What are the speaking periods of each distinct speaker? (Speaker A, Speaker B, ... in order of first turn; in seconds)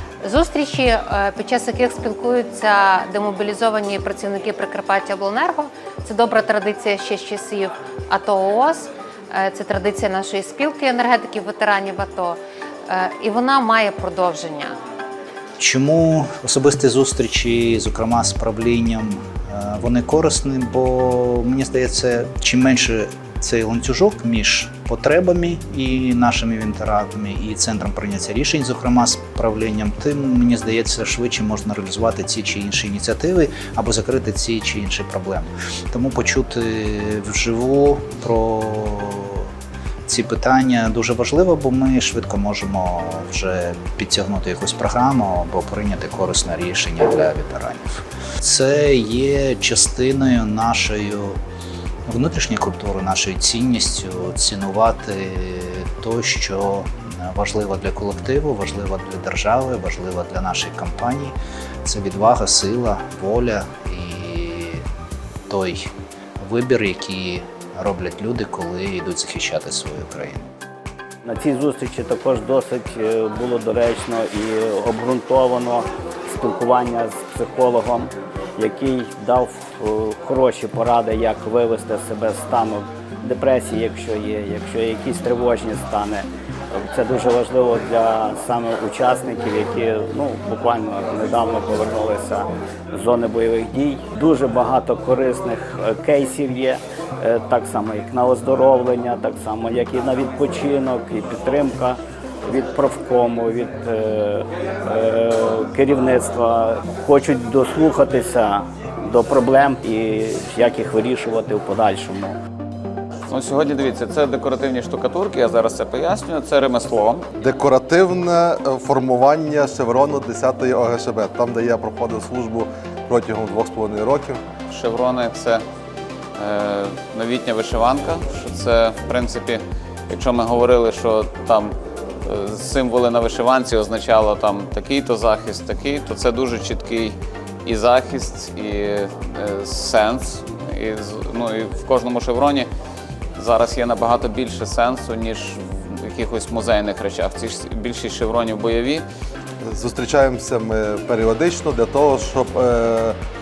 Speaker A: 0.2-14.8
Speaker B: 15.6-39.5, 40.0-51.4, 52.1-64.8, 65.5-70.4
Speaker C: 71.2-112.4
Speaker D: 113.3-117.3, 124.7-125.6, 126.4-142.7, 143.3-149.0
Speaker E: 117.4-124.4, 149.6-153.2